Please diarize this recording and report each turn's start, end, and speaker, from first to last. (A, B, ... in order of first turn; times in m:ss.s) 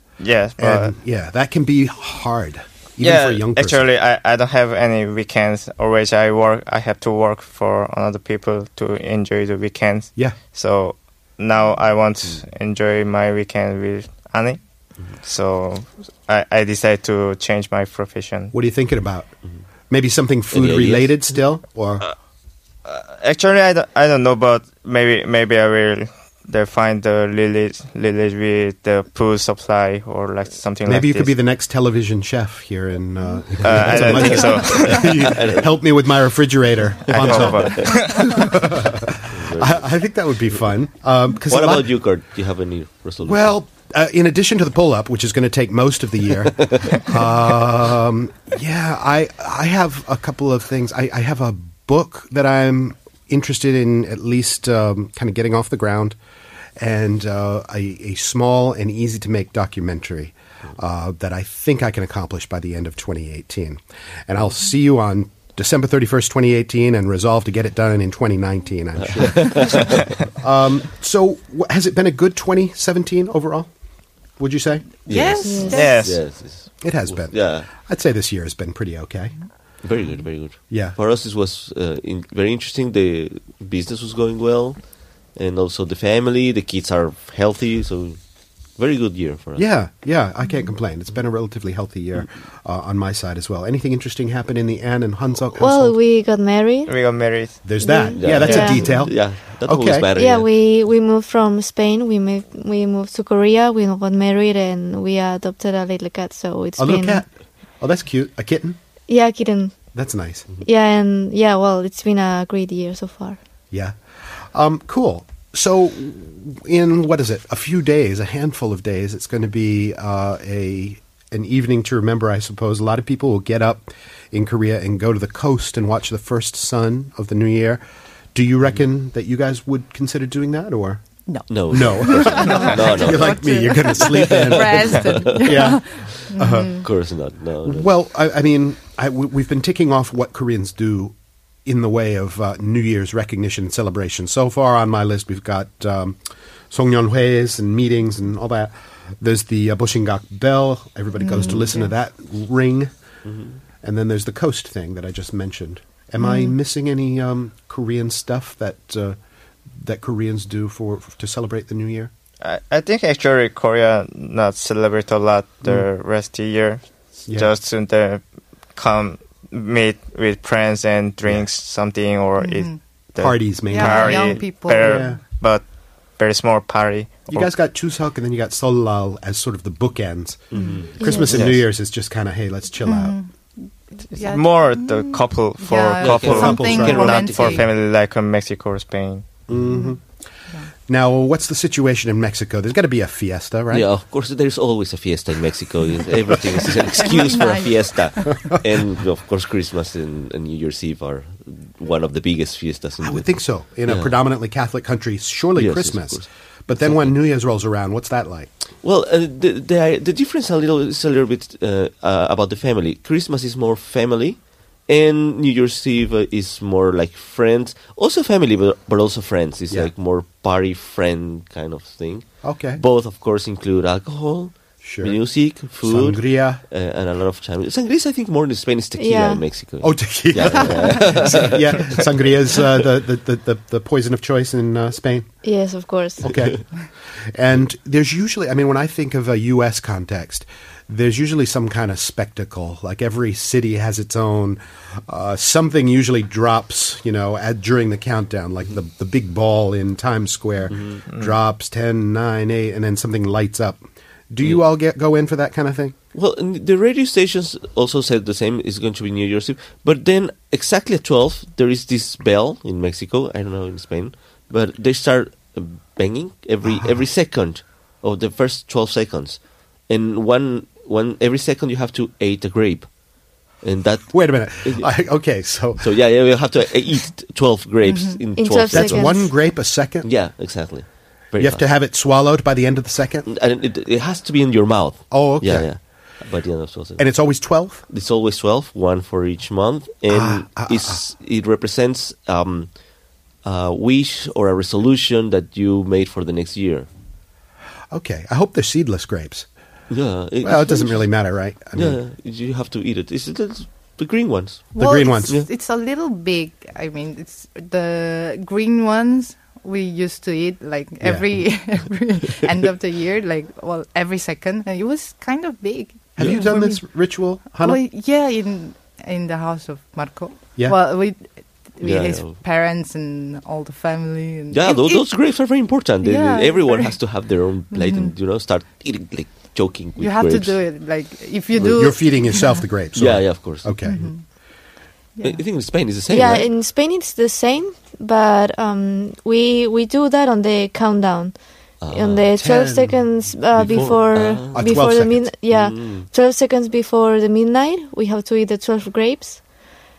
0:00.2-0:00.9 A
0:00.6-0:03.8 B
0:03.0-0:14.6 A
0:15.1-0:18.5 A
0:18.5-0:19.3 B
0:19.9-0:22.0 B
0:20.5-0:21.2 C
0:22.8-0:31.3 A
0:30.8-0:41.9 B
0:33.6-0:35.3 A
0:33.8-0:35.7 C
0:37.1-0:38.0 C
0:37.1-0:38.4 A
0:39.3-0:39.8 C
0:41.5-0:43.5 C
0:43.2-0:56.2 B
0:46.6-0:47.0 C
0:56.8-1:13.7 B
1:09.1-1:10.0 C
1:14.4-1:14.9 B
1:15.0-1:17.7 C
1:15.1-1:16.1 D
1:15.4-1:15.9 E
1:15.7-1:16.2 A
1:16.8-1:19.3 B
1:19.8-1:24.8 C
1:20.7-1:21.0 B
1:25.4-1:28.2 C
1:28.8-1:29.6 C
1:29.6-1:36.0 B
1:35.5-1:36.9 E
1:36.9-1:37.6 A
1:37.6-1:40.1 B
1:37.8-1:39.1 E
1:38.2-1:40.5 C
1:38.4-1:38.8 A
1:40.1-1:47.2 E
1:46.8-1:47.3 B
1:47.8-1:48.8 B
1:49.1-1:49.7 E
1:49.9-1:50.5 B
1:50.6-1:53.4 E
1:53.7-2:07.8 B
2:08.3-2:11.0 B
2:11.3-2:16.8 D
2:11.5-2:17.9 C
2:11.7-2:16.9 B
2:17.6-2:26.2 B
2:26.7-2:32.9 B
2:31.2-2:31.9 D
2:33.2-2:33.5 C
2:33.8-2:39.2 B
2:39.8-2:42.1 B
2:42.4-2:55.6 A
2:52.4-2:52.8 D
2:53.2-2:55.2 B
2:53.7-2:55.2 D
2:56.2-2:57.5 A
2:57.3-3:03.2 B
3:00.5-3:00.9 C
3:00.5-3:01.1 D
3:01.0-3:01.3 E
3:01.3-3:01.6 A
3:02.8-3:03.3 D
3:04.1-3:09.4 A
3:04.1-3:07.6 D
3:06.0-3:07.6 C
3:06.3-3:07.2 B
3:09.5-3:10.0 B
3:09.7-3:09.9 D
3:10.9-3:13.8 B
3:13.7-3:23.3 C
3:16.9-3:18.4 D
3:23.0-3:28.5 B
3:23.9-3:24.1 C
3:25.6-3:26.3 C
3:26.8-3:27.1 C
3:28.8-3:52.1 C
3:42.4-3:42.8 B
3:44.8-3:45.2 B
3:45.8-3:46.6 B
3:49.0-3:49.4 E
3:49.8-3:55.3 B
3:50.6-3:51.2 D
3:55.4-3:56.3 E
3:56.2-3:56.6 B
3:57.3-4:15.9 B
4:10.7-4:11.0 C
4:11.1-4:11.3 A
4:16.1-4:32.9 C
4:33.6-4:34.9 C
4:34.1-4:35.9 B
4:35.8-4:39.1 C
4:37.8-4:38.2 D
4:38.4-4:39.3 E
4:38.7-4:40.1 B
4:40.0-4:41.6 C
4:41.4-4:43.3 B
4:43.2-4:47.1 C
4:45.1-4:45.7 B
4:47.0-4:47.8 B
4:47.9-4:52.7 C
4:50.1-4:51.0 B
4:53.4-4:56.9 C
4:57.9-4:59.5 B
4:59.9-5:01.0 C
5:00.4-5:02.0 B
5:01.7-5:04.7 C
5:04.8-5:05.4 B
5:04.8-5:16.8 D
5:11.0-5:11.4 B
5:16.2-5:17.8 B
5:17.6-5:25.1 D
5:21.8-5:22.4 C
5:24.5-5:30.6 C
5:26.0-5:27.0 D
5:27.7-5:28.1 D
5:30.0-5:32.6 D
5:31.6-5:31.9 C
5:31.6-5:34.1 B
5:32.9-5:33.8 C
5:33.8-5:34.2 D
5:35.2-5:35.4 D
5:35.2-5:36.5 C
5:36.1-5:49.4 E
5:41.8-5:42.3 C
5:42.4-5:43.0 B
5:43.6-5:44.8 C
5:43.7-5:45.3 B
5:45.5-5:46.1 C